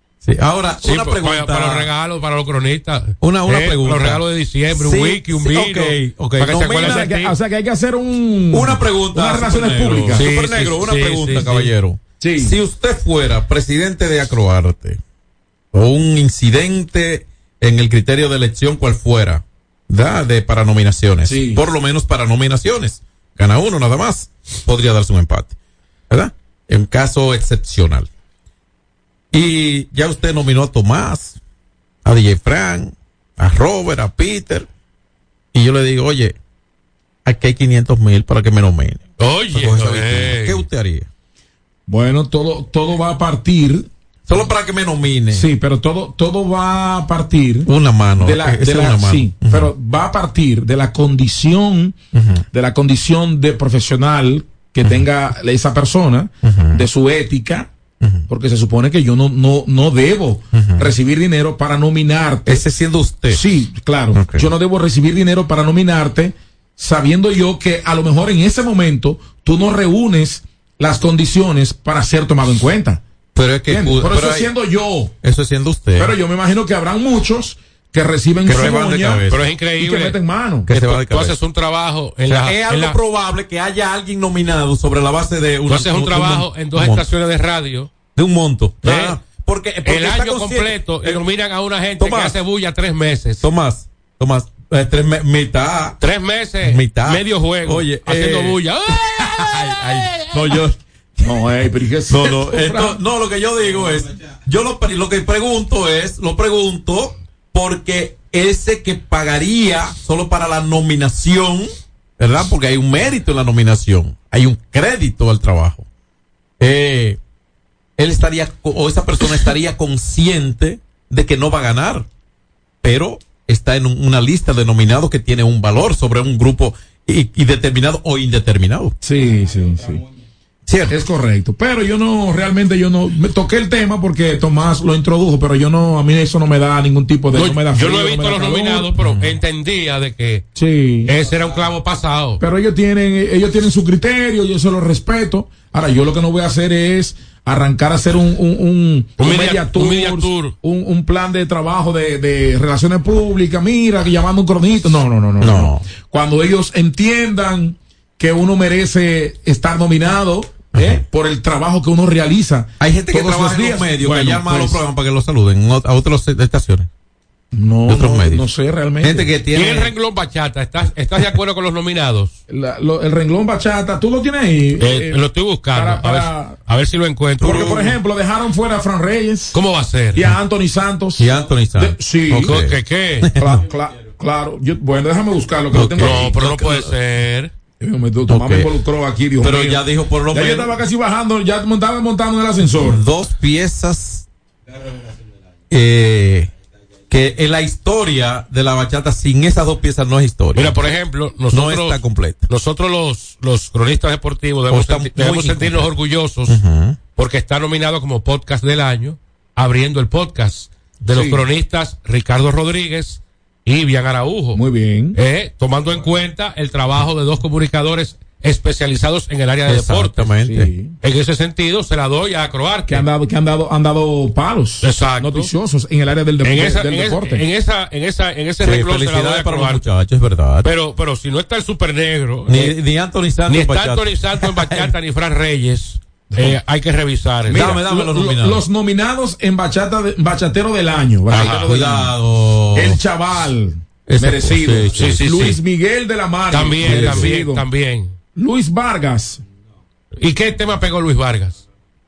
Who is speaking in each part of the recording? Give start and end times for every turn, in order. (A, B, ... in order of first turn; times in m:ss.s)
0:00.2-0:01.9 A
0:00.8-0:07.3 B
0:03.2-0:07.1 A
0:06.8-0:10.3 C
0:08.5-0:15.0 A
0:10.1-0:11.7 B
0:12.2-0:12.6 C
0:15.7-0:25.5 A
0:21.2-0:21.6 C
0:26.1-0:28.1 A
0:29.3-0:31.4 A
0:32.0-0:34.7 A
0:35.5-0:36.4 A
0:37.2-0:39.0 A
0:39.2-0:40.6 B
0:39.5-0:41.1 A
0:41.9-0:43.9 C
0:44.3-0:45.5 A
0:45.3-0:52.0 C
0:47.6-0:49.7 A
0:52.1-0:52.4 A
0:52.5-0:57.7 C
0:56.4-0:56.8 A
0:58.3-1:02.6 C
1:00.5-1:00.9 A
1:02.4-1:03.4 A
1:03.3-1:13.0 C
1:04.1-1:04.5 A
1:13.3-1:14.5 A
1:13.7-1:15.1 C
1:15.2-1:16.1 A
1:16.0-1:20.7 C
1:18.4-1:19.4 A
1:18.5-1:18.8 B
1:19.3-1:23.0 B
1:20.7-1:21.4 A
1:22.3-1:27.0 A
1:25.6-1:27.9 B
1:28.2-1:31.2 A
1:28.8-1:29.2 B
1:29.8-1:33.4 B
1:32.0-1:32.3 A
1:33.4-1:36.0 A
1:36.0-1:40.3 B
1:36.6-1:40.8 A
1:41.2-1:43.0 C
1:42.1-1:55.8 A
1:56.6-1:57.2 A
1:58.0-2:02.1 A
2:02.8-2:09.0 A
2:09.0-2:10.0 C
2:10.7-2:10.9 A
2:10.9-2:18.9 C
2:17.3-2:20.4 B
2:19.0-2:19.3 A
2:20.5-2:21.1 C
2:21.0-2:22.4 B
2:22.4-2:44.8 C
2:29.2-2:30.5 B
2:35.4-2:35.8 A
2:40.7-2:41.0 A
2:42.8-2:46.9 A
2:47.5-2:49.3 C
2:47.9-2:48.4 A
2:49.0-2:49.9 A
2:49.5-2:52.3 B
2:52.5-2:56.6 C
2:54.8-2:57.8 B
2:57.4-2:59.6 C
2:57.4-2:57.9 A
2:59.5-3:00.3 B
3:00.1-3:02.6 C
3:01.2-3:03.6 A
3:02.4-3:03.3 B
3:03.3-3:06.4 C
3:05.7-3:06.9 A
3:06.0-3:07.5 B
3:07.8-3:13.0 C
3:08.3-3:08.7 A
3:09.4-3:10.7 A
3:12.8-3:14.2 A
3:15.7-3:16.5 A
3:17.1-3:20.8 A
3:20.5-3:26.6 B
3:21.5-3:22.4 A
3:24.7-3:25.9 A
3:26.4-3:27.0 A
3:27.2-3:34.6 B
3:31.1-3:31.4 C
3:34.5-3:35.2 C
3:35.1-3:40.3 B
3:39.7-3:40.7 A
3:40.4-3:41.0 C
3:41.0-3:43.0 B
3:42.9-3:47.4 C
3:44.8-3:45.5 B
3:46.4-3:49.8 B
3:48.6-3:50.7 A
3:50.6-3:52.8 B
3:52.5-3:54.9 A
3:53.5-3:57.8 B
3:57.5-4:02.2 C
3:57.5-3:58.6 A
4:01.3-4:03.0 A
4:01.3-4:01.7 B
4:02.7-4:07.6 C
4:04.1-4:05.2 A
4:04.9-4:05.6 B
4:06.5-4:08.1 B
4:06.8-4:07.3 A
4:08.3-4:09.4 C
4:10.2-4:11.6 B